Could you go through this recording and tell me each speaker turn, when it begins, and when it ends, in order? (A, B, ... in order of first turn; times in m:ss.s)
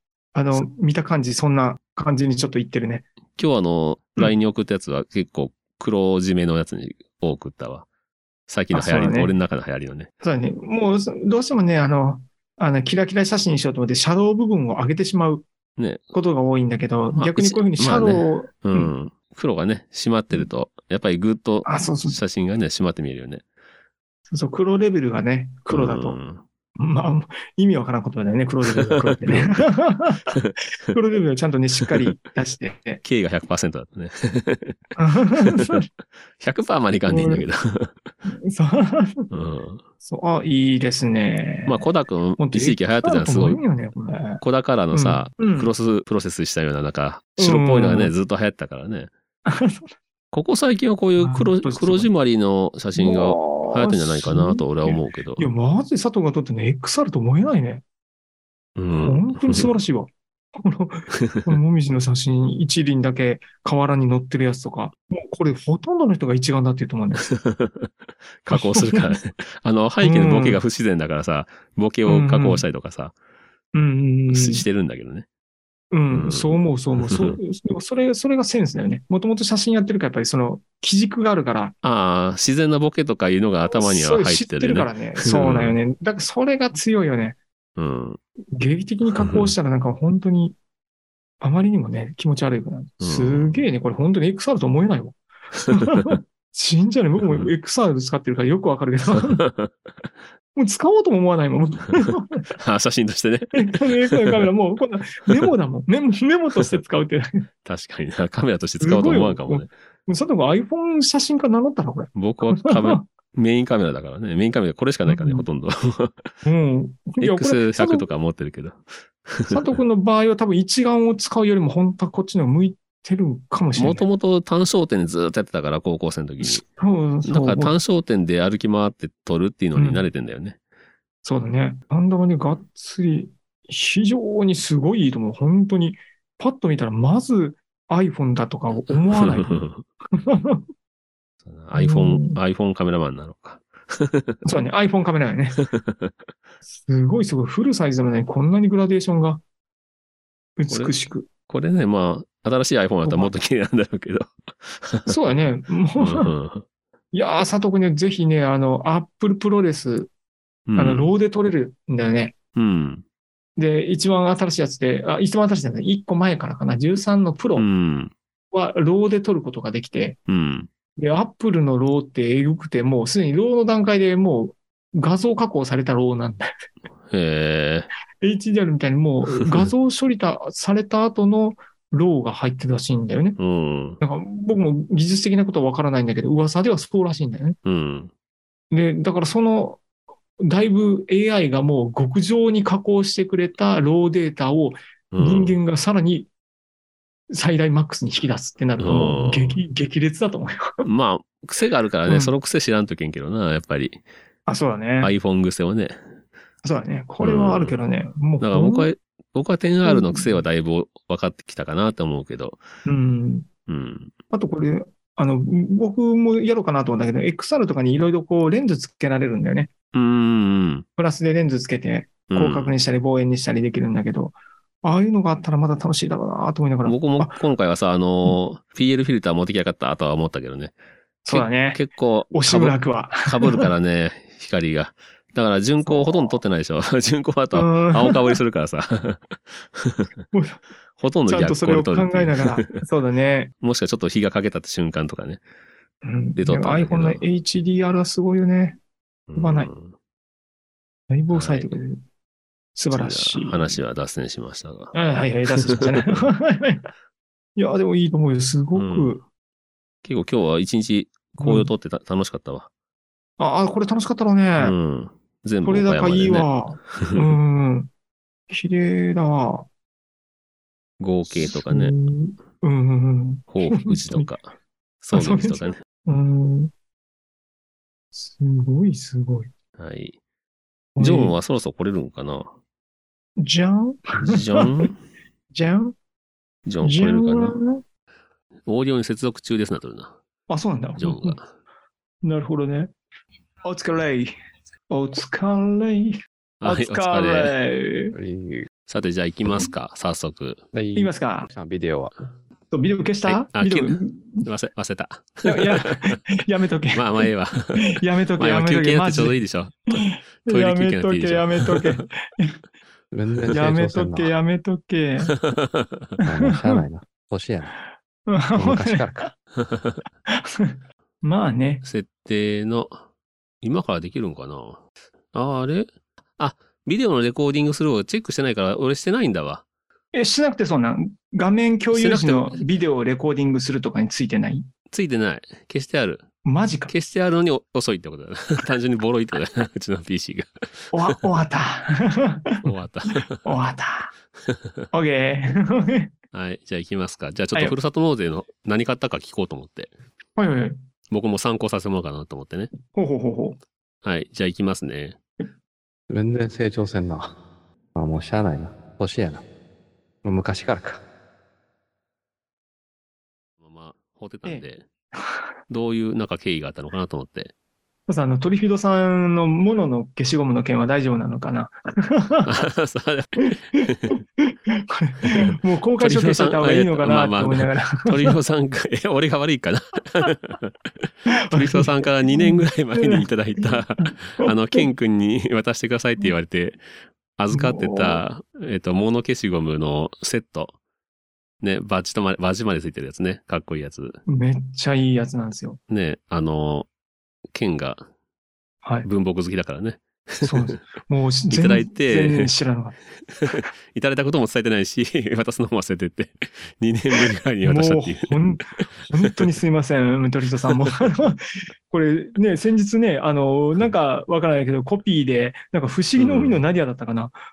0:00.3-0:03.1 A
0:03.4-0:07.9 B
0:08.5-0:10.1 B
0:08.7-0:09.3 A
0:10.2-0:15.4 A
0:15.8-0:16.1 B
0:16.1-0:18.9 A
0:17.2-0:23.4 B
0:21.6-0:22.2 A
0:24.3-0:26.2 A
0:25.7-0:26.4 B
0:26.8-0:33.0 A
0:28.7-0:29.6 B
0:31.8-0:32.2 B
0:33.0-0:34.8 B
0:35.0-0:35.8 A
0:35.4-0:35.8 B
0:36.4-0:37.9 B
0:37.1-0:37.4 A
0:38.3-0:39.3 A
0:39.3-0:39.8 B
0:40.0-0:41.8 A
0:41.7-0:43.6 B
0:42.4-0:44.4 A
0:44.4-0:49.1 B
0:44.9-0:45.7 A
0:47.4-0:48.1 A
0:49.4-0:49.9 A
0:50.3-0:55.5 B
0:51.2-0:52.1 A
0:53.0-0:57.8 A
0:58.8-0:59.7 B
0:58.9-1:07.2 A
1:01.2-1:01.5 B
1:07.2-1:07.9 B
1:08.4-1:13.1 B
1:08.5-1:09.2 A
1:10.0-1:10.6 A
1:12.1-1:12.6 A
1:13.7-1:14.6 A
1:14.3-1:15.2 B
1:15.9-1:21.7 A
1:16.1-1:17.4 B
1:21.8-1:25.8 B
1:23.7-1:27.4 A
1:27.8-1:28.2 B
1:28.5-1:30.5 A
1:29.2-1:29.5 B
1:31.4-1:39.4 A
1:33.0-1:33.6 B
1:39.1-1:39.7 B
1:40.6-1:42.5 A
1:42.6-1:44.5 B
1:43.5-1:47.4 A
1:47.6-1:49.7 B
1:48.8-1:53.0 A
1:52.1-1:56.3 B
1:55.0-1:55.5 A
1:56.4-1:58.1 A
1:57.2-1:59.8 B
1:59.5-2:04.0 A
2:03.8-2:06.6 B
2:06.4-2:07.7 A
2:07.2-2:10.6 B
2:09.8-2:10.0 A
2:11.2-2:19.6 A
2:18.7-2:19.8 B
2:20.2-2:20.6 A
2:21.4-2:24.4 B
2:21.7-2:22.4 A
2:24.4-2:25.6 A
2:25.6-2:26.1 B
2:26.7-2:29.4 A
2:30.6-2:31.2 A
2:30.7-2:30.9 B
2:31.5-2:35.2 B
2:33.0-2:33.3 A
2:35.0-2:36.3 A
2:36.0-2:36.6 B
2:37.1-2:40.1 A
2:40.7-2:41.1 B
2:40.8-2:42.3 A
2:42.6-2:43.0 B
2:43.6-2:47.7 A
2:47.6-2:48.1 B
2:48.5-2:50.2 A
2:50.3-2:50.7 B
2:51.0-2:56.4 A
2:57.1-2:57.9 B
2:58.2-3:03.4 A
3:03.4-3:04.0 B
3:04.0-3:07.6 A
3:07.6-3:08.1 B
3:08.7-3:09.8 A
3:10.4-3:16.3 A
3:15.1-3:15.6 B
3:17.3-3:20.8 A
3:18.8-3:19.6 B
3:20.8-3:24.0 B
3:22.1-3:22.3 A
3:24.5-3:25.1 A
3:25.0-3:26.0 B
3:26.6-3:28.9 A
3:27.2-3:27.7 B
3:28.4-3:32.6 B
3:29.8-3:30.4 A
3:32.8-3:33.5 A
3:33.7-3:34.1 B
3:34.3-3:39.7 A
3:39.9-3:40.8 B
3:41.0-3:47.4 A
3:42.3-3:42.7 B
3:46.8-3:50.7 B
3:51.2-3:53.6 A
3:51.3-4:00.1 B
3:55.8-3:56.4 A
3:57.5-3:58.3 A
4:00.3-4:00.6 A
4:01.0-4:02.8 B
4:01.3-4:03.5 A
4:03.6-4:05.4 B
4:06.0-4:08.8 A
4:06.4-4:07.2 B
4:09.3-4:09.9 B
4:09.4-4:09.7 A
4:11.1-4:12.0 A
4:11.3-4:11.8 B
4:12.7-4:13.8 A
4:12.9-4:14.9 B
4:14.9-4:16.9 A
4:15.6-4:16.3 B
4:17.6-4:19.2 A
4:18.7-4:19.2 B
4:20.0-4:22.7 B
4:21.4-4:21.7 A
4:23.4-4:24.7 A
4:24.6-4:27.4 B
4:25.6-4:27.9 A
4:28.5-4:29.6 A
4:31.0-4:32.0 B
4:31.3-4:34.3 A
4:33.5-4:34.4 B
4:35.0-4:35.8 B
4:35.1-4:36.7 A
4:38.1-4:39.5 A
4:39.8-4:40.2 B
4:41.0-4:41.4 A
4:41.0-4:42.5 B
4:43.4-4:44.8 A
4:44.2-4:45.0 B
4:45.5-4:45.9 A
4:46.6-4:47.6 B
4:46.8-4:47.8 A
4:48.6-4:50.2 B
4:50.5-4:51.4 A
4:51.0-4:51.5 B
4:52.2-4:52.9 A
4:53.6-4:54.3 A
4:54.9-4:58.1 A
4:56.6-4:57.5 B
4:58.1-4:58.7 C
4:58.9-5:00.6 B
5:00.7-5:02.1 C
5:00.9-5:01.5 A
5:02.7-5:04.4 A
5:03.2-5:06.2 B
5:05.4-5:07.3 A
5:06.9-5:12.0 B
5:07.9-5:12.6 A
5:13.1-5:14.3 C
5:13.5-5:15.3 A
5:15.5-5:15.8 B
5:16.2-5:17.7 C
5:18.3-5:19.3 A
5:18.5-5:19.3 C
5:19.6-5:20.0 B
5:20.3-5:21.8 A
5:21.8-5:23.0 B
5:23.6-5:24.8 B
5:25.3-5:29.6 B
5:30.1-5:34.7 A
5:31.9-5:32.6 B
5:34.9-5:36.2 B
5:36.4-5:36.9 A
5:36.9-5:41.2 B
5:40.9-5:42.6 A
5:42.6-5:43.5 B
5:43.4-5:44.1 A
5:44.5-5:44.8 B
5:44.9-5:46.1 A
5:46.3-5:49.9 B
5:50.4-5:50.8 A
5:51.1-5:52.7 B
5:52.9-5:53.6 A
5:54.0-5:55.2 B
5:56.1-5:57.3 C
5:57.9-5:59.4 C
6:00.2-6:01.0 C
6:03.6-6:04.8 B
6:04.4-6:05.4 A
6:05.7-6:07.5 B
6:08.1-6:12.5 A
6:12.4-6:14.2 B
6:13.4-6:18.4 A
6:16.0-6:26.8 B
6:21.3-6:24.9 A
6:27.4-6:30.7 B
6:27.5-6:28.2 A
6:31.6-6:34.2 B
6:34.3-6:35.8 A
6:35.9-6:36.9 B
6:37.5-6:38.1 B
6:39.0-6:40.8 B
6:40.4-6:43.0 A
6:41.5-6:42.5 B
6:43.3-6:49.4 B
6:47.6-6:57.4 A
6:56.2-6:56.6 B